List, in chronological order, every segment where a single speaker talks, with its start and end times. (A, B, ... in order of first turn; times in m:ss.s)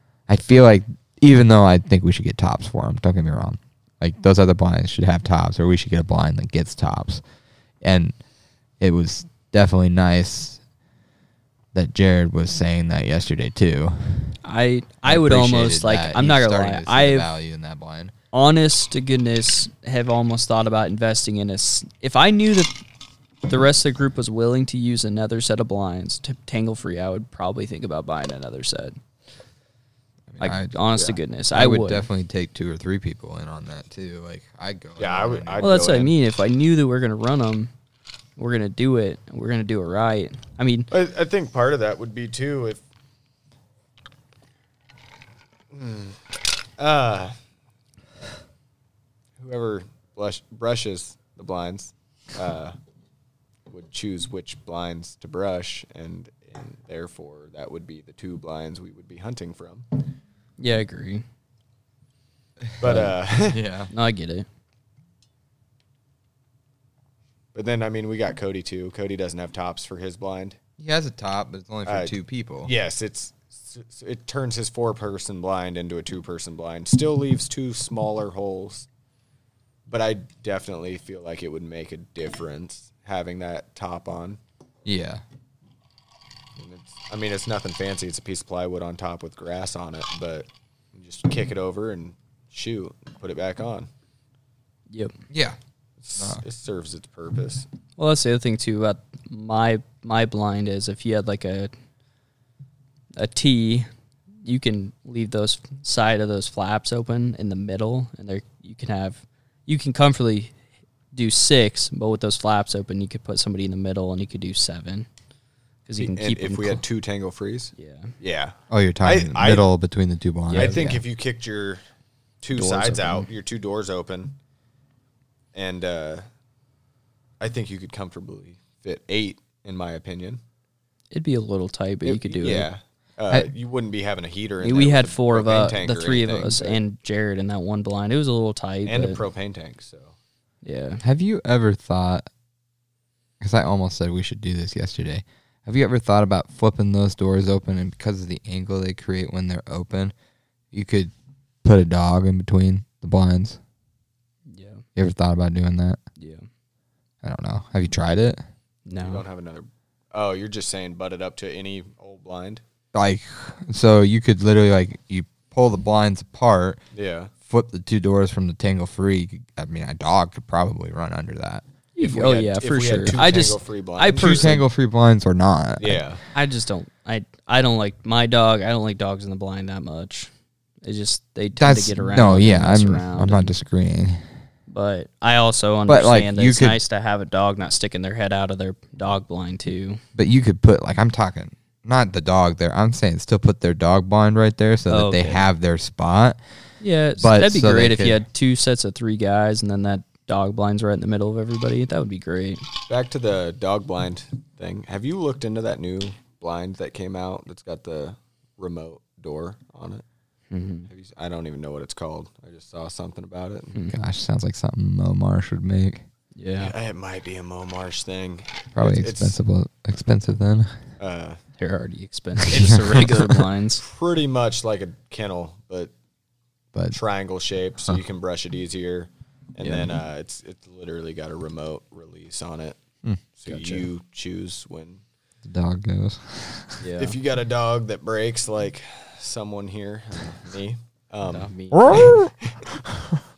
0:00.3-0:07.2 A
0:07.8-0:08.2 A
0:08.8-0:10.6 A
0:11.7-0:14.4 A
0:14.4-0:17.3 B
0:15.0-0:18.1 A
0:18.3-0:22.8 B
0:23.4-0:29.0 B
0:30.3-0:30.9 A
0:30.4-0:32.1 B
0:31.5-0:35.7 A
0:35.0-0:36.1 C
0:35.6-0:37.7 B
0:38.4-0:40.9 B
0:40.9-0:42.8 C
0:45.7-0:47.3 C
0:49.4-0:52.7 C
0:53.7-0:59.8 C
1:00.6-1:01.2 B
1:02.8-1:03.6 C
1:02.8-1:03.1 B
1:03.5-1:03.9 A
1:03.9-1:04.5 B
1:07.5-1:10.6 C
1:10.8-1:12.7 A
1:11.8-1:18.9 C
1:19.9-1:24.4 C
1:24.8-1:25.2 A
1:26.6-1:33.9 C
1:35.3-1:35.6 A
1:36.0-1:37.7 C
1:38.0-1:41.7 B
1:43.2-1:43.9 B
1:44.4-1:50.5 B
1:51.1-1:55.1 B
1:55.8-1:56.8 B
1:56.0-1:59.6 C
1:57.8-1:58.1 B
1:58.7-2:01.0 A
2:00.5-2:00.9 B
2:00.5-2:01.8 C
2:02.4-2:04.4 C
2:02.5-2:03.3 B
2:05.5-2:06.2 C
2:07.4-2:10.4 C
2:11.1-2:12.7 B
2:12.0-2:16.8 C
2:14.6-2:19.2 B
2:18.9-2:20.1 C
2:20.6-2:21.0 B
2:21.0-2:22.3 A
2:23.4-2:30.1 A
2:30.7-2:31.1 A
2:31.6-2:33.6 A
2:34.5-2:34.8 B
2:35.0-2:36.0 A
2:36.2-2:36.4 B
2:37.2-2:38.4 A
2:38.8-2:39.2 B
2:39.0-2:42.6 C
2:42.9-2:46.8 A
2:46.9-2:47.3 C
2:47.4-2:51.6 A
2:52.0-2:54.6 B
2:52.0-2:54.6 C
2:54.1-2:56.0 A
2:55.8-2:56.2 C
2:56.3-3:00.3 B
3:00.8-3:03.5 B
3:01.6-3:04.2 A
3:04.7-3:10.0 B
3:05.9-3:06.8 A
3:10.2-3:16.4 A
3:14.9-3:15.4 B
3:16.8-3:22.6 B
3:17.2-3:18.2 A
3:22.9-3:30.0 C
3:30.5-3:30.9 B
3:30.9-3:33.7 C
3:33.9-3:36.0 A
3:36.4-3:36.7 B
3:36.6-3:39.4 C
3:38.7-3:40.8 A
3:41.0-3:41.4 C
3:41.6-3:43.8 B
3:42.5-3:43.2 A
3:42.6-3:43.0 C
3:43.8-3:45.9 C
3:46.9-3:52.8 C
3:49.6-3:49.9 A
3:53.4-3:55.0 C
3:53.5-3:53.8 B
3:55.4-3:56.8 A
3:56.8-3:57.2 B
3:57.0-4:02.2 C
4:01.3-4:02.2 B
4:01.7-4:03.2 A